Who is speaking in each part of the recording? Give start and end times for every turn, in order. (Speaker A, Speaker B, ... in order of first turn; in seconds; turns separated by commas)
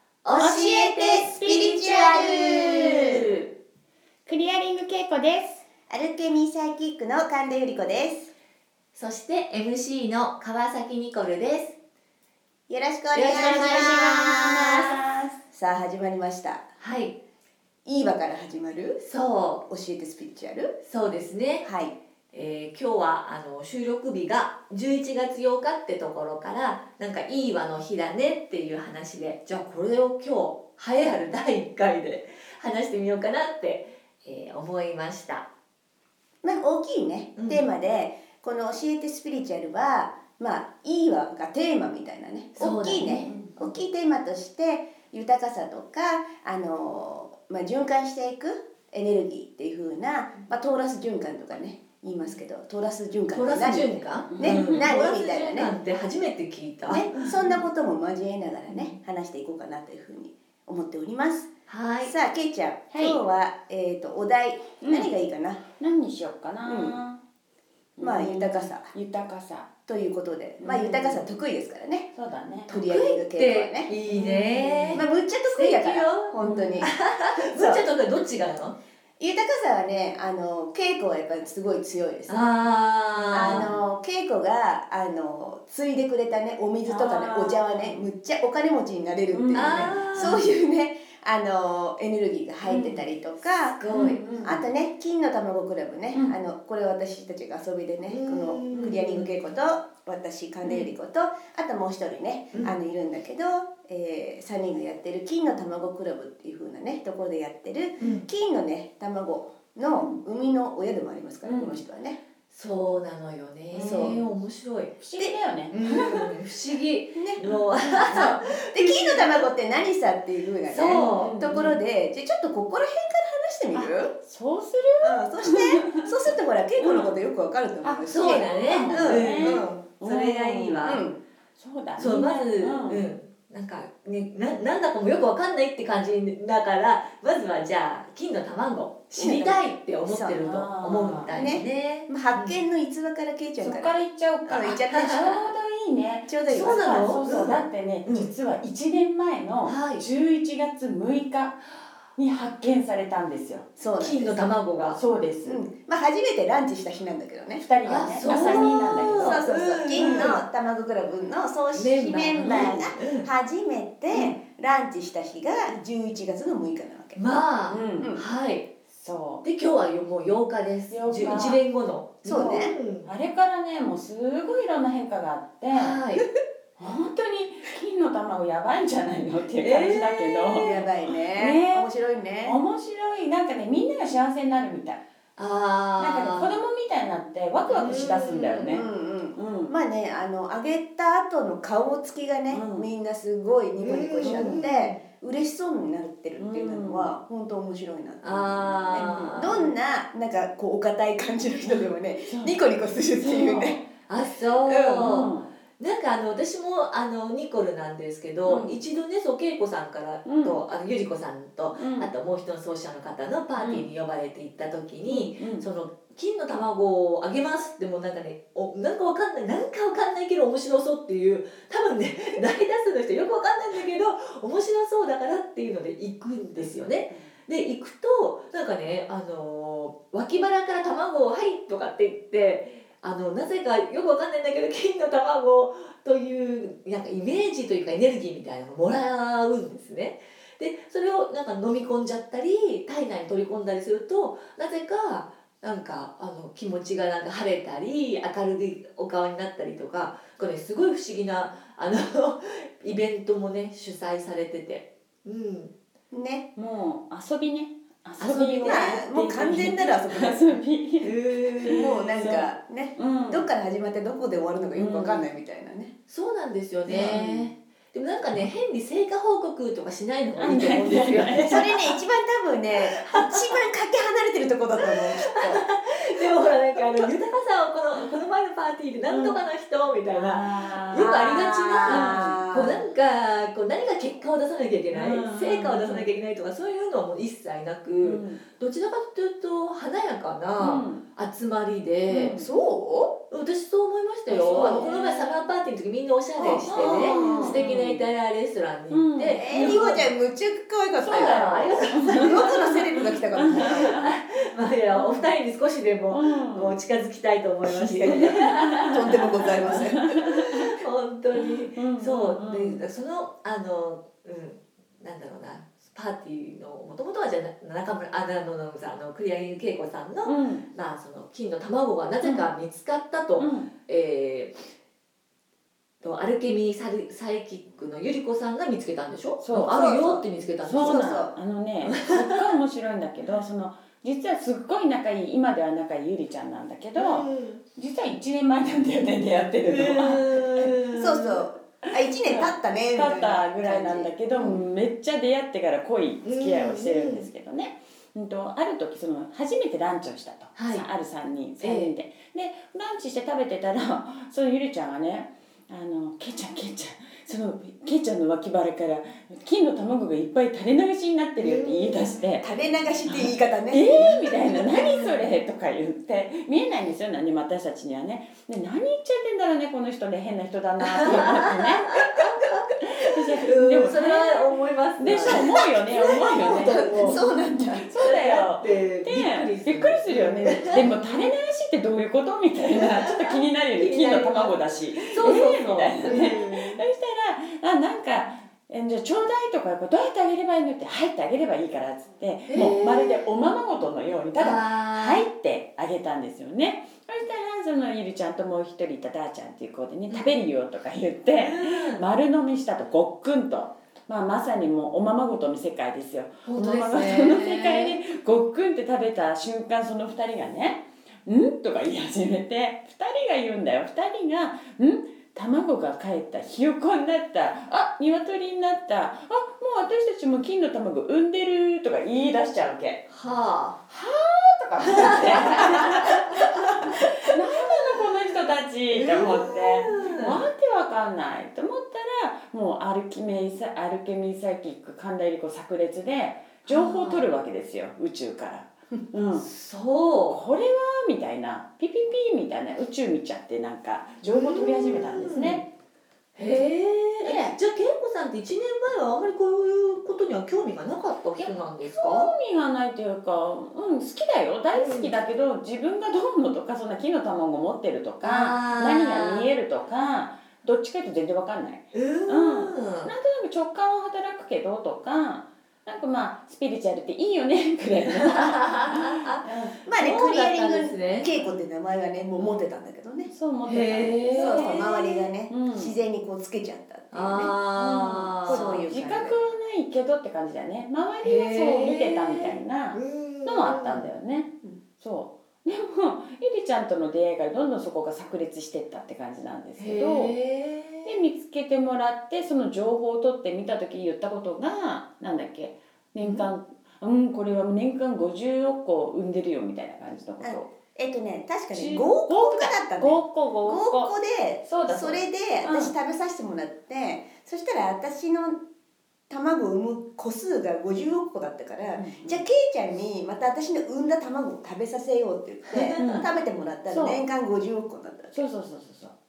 Speaker A: 0.2-1.7, Speaker B: 0.3-3.2, Speaker C: 0.4-3.2, Speaker C: 4.2-5.6, Speaker B: 5.9-8.3, Speaker A: 8.9-11.8, Speaker B: 12.7-14.7, Speaker A: 13.1-14.9, Speaker C: 13.2-15.3, Speaker B: 15.5-16.7, Speaker A: 16.8-17.1, Speaker B: 17.8-19.0, Speaker A: 19.0-19.6, Speaker B: 19.6-20.7, Speaker A: 20.8-21.7, Speaker B: 21.6-21.9, Speaker A: 22.3-35.5, Speaker B: 36.4-55.7, Speaker A: 37.4-37.7, Speaker A: 42.6-43.4, Speaker C: 42.6-43.6, Speaker A: 53.3-57.1, Speaker C: 54.3-54.9, Speaker B: 56.9-61.5, Speaker C: 57.1-57.5, Speaker A: 61.7-62.1, Speaker B: 62.0-65.6, Speaker C: 62.9-63.2, Speaker C: 64.8-65.1, Speaker C: 65.8-67.2, Speaker B: 66.6-67.0, Speaker C: 68.0-69.7, Speaker B: 68.0-68.9, Speaker B: 69.9-72.1, Speaker C: 70.6-71.3, Speaker C: 72.1-72.8, Speaker B: 72.7-73.9, Speaker A: 72.7-78.8, Speaker C: 74.1-75.0, Speaker B: 74.9-77.8, Speaker B: 79.2-82.4, Speaker A: 82.3-83.7, Speaker C: 83.3-83.8, Speaker B: 83.3-112.2, Speaker C: 86.8-88.0, Speaker C: 89.3-90.3, Speaker A: 89.5-90.4, Speaker C: 92.7-93.0, Speaker A: 93.8-94.2, Speaker C: 93.9-94.7, Speaker A: 98.1-99.3, Speaker A: 108.0-108.2, Speaker C: 111.4-111.8, Speaker A: 112.5-115.0, Speaker C: 113.8-114.1, Speaker B: 113.8-114.2, Speaker C: 115.0-116.3, Speaker A: 115.7-119.5, Speaker B: 117.1-117.4, Speaker C: 117.4-118.3, Speaker B: 118.1-124.1, Speaker A: 120.7-121.8, Speaker C: 120.9-121.7, Speaker C: 124.2-126.1, Speaker B: 125.0-129.8, Speaker C: 126.8-127.1, Speaker C: 127.8-131.0, Speaker A: 128.1-131.0, Speaker B: 130.8-131.2, Speaker C: 131.6-133.0, Speaker A: 132.0-142.6, Speaker B: 139.2-140.4, Speaker C: 140.4-141.5, Speaker B: 141.3-143.9, Speaker C: 143.6-151.6, Speaker B: 144.4-145.4, Speaker A: 144.9-145.4, Speaker B: 146.3-147.6, Speaker A: 146.5-147.5, Speaker A: 148.1-148.3, Speaker A: 149.6-150.0, Speaker C: 152.2-153.7, Speaker B: 153.8-154.4, Speaker A: 154.0-155.0, Speaker C: 154.9-155.6, Speaker B: 155.4-157.6, Speaker C: 157.6-159.4, Speaker A: 157.8-160.4, Speaker B: 158.2-167.2, Speaker C: 160.0-160.4, Speaker A: 161.7-163.3, Speaker C: 162.3-162.9, Speaker A: 164.1-164.4, Speaker A: 167.2-168.7, Speaker C: 167.7-168.2, Speaker B: 168.0-168.2, Speaker C: 168.9-169.4, Speaker A: 169.4-173.1, Speaker C: 170.9-171.6, Speaker B: 172.2-172.7, Speaker C: 172.3-176.2, Speaker A: 175.7-176.3, Speaker C: 176.8-181.9, Speaker A: 179.6-180.8, Speaker B: 180.6-182.6, Speaker C: 182.4-185.0, Speaker A: 185.4-186.6, Speaker C: 186.0-189.7, Speaker A: 187.7-188.7, Speaker B: 188.6-203.8, Speaker C: 192.5-192.9, Speaker A: 193.8-195.0, Speaker C: 194.2-194.5, Speaker C: 196.4-197.1, Speaker A: 198.2-199.7, Speaker C: 198.9-199.4, Speaker C: 202.3-202.6, Speaker C: 203.2-203.8, Speaker A: 204.1-255.7, Speaker C: 204.7-205.5, Speaker C: 208.4-208.8, Speaker C: 210.2-210.6, Speaker C: 211.8-212.1, Speaker C: 213.6-213.8, Speaker C: 215.1-215.7, Speaker B: 256.1-256.5, Speaker C: 256.6-263.5, Speaker A: 258.2-258.9, Speaker B: 258.6-260.6, Speaker A: 261.0-262.3, Speaker B: 261.7-265.9, Speaker C: 264.7-265.3, Speaker A: 266.1-271.8, Speaker C: 266.9-267.5, Speaker C: 270.4-271.9, Speaker B: 271.4-275.6, Speaker A: 273.0-273.4, Speaker A: 274.8-292.4, Speaker C: 279.1-279.4, Speaker C: 280.1-282.4, Speaker B: 280.9-282.8, Speaker C: 284.9-286.1, Speaker C: 288.0-288.4, Speaker C: 290.6-291.0, Speaker C: 292.1-292.5, Speaker B: 292.4-293.1, Speaker A: 293.3-300.1, Speaker C: 294.3-295.4, Speaker B: 296.4-297.6, Speaker C: 296.7-298.0, Speaker C: 298.9-300.0, Speaker B: 299.4-304.0, Speaker C: 301.0-302.7, Speaker A: 301.1-324.7, Speaker C: 303.3-304.1, Speaker C: 304.9-305.3, Speaker C: 306.1-306.8, Speaker B: 307.8-310.1, Speaker C: 307.8-310.7, Speaker C: 311.4-312.8, Speaker C: 320.2-320.7, Speaker C: 323.4-323.7, Speaker A: 326.0-331.1, Speaker C: 329.4-329.9, Speaker B: 329.7-330.2, Speaker C: 330.6-340.7, Speaker B: 330.8-331.3, Speaker A: 331.9-332.4, Speaker A: 337.0-337.6, Speaker A: 339.6-341.4, Speaker B: 340.9-344.1, Speaker C: 342.2-362.5, Speaker A: 344.3-344.6, Speaker A: 346.2-347.3, Speaker A: 350.6-350.9, Speaker A: 351.6-351.9, Speaker A: 361.4-362.2, Speaker B: 362.4-365.1, Speaker C: 363.1-423.1, Speaker A: 370.8-375.5, Speaker B: 375.2-377.9, Speaker A: 376.3-377.2, Speaker A: 378.0-381.2, Speaker A: 382.7-386.8, Speaker A: 392.5-393.2, Speaker A: 394.4-395.2, Speaker A: 401.3-402.0, Speaker A: 406.4-408.0, Speaker A: 423.1-423.8, Speaker C: 423.9-439.5, Speaker A: 424.8-427.9, Speaker A: 428.9-430.4, Speaker A: 436.7-437.3, Speaker A: 439.3-440.4, Speaker C: 440.3-445.7, Speaker A: 444.2-445.6, Speaker A: 446.4-452.3, Speaker C: 447.2-447.6, Speaker C: 451.4-469.8, Speaker A: 454.7-455.1, Speaker A: 458.2-459.5, Speaker A: 461.9-463.1, Speaker A: 468.2-471.3, Speaker B: 469.8-473.3, Speaker C: 473.3-475.9, Speaker A: 473.6-475.3, Speaker B: 474.4-477.5, Speaker A: 477.1-478.8, Speaker C: 477.7-490.3, Speaker B: 478.5-479.4, Speaker A: 481.2-484.1, Speaker A: 489.8-491.2, Speaker C: 491.0-500.7, Speaker B: 500.4-508.6, Speaker C: 501.7-504.1, Speaker C: 504.6-505.9, Speaker B: 509.3-518.4, Speaker C: 511.9-512.5, Speaker A: 515.7-516.2, Speaker C: 516.0-516.3, Speaker C: 516.9-517.2, Speaker C: 518.3-519.1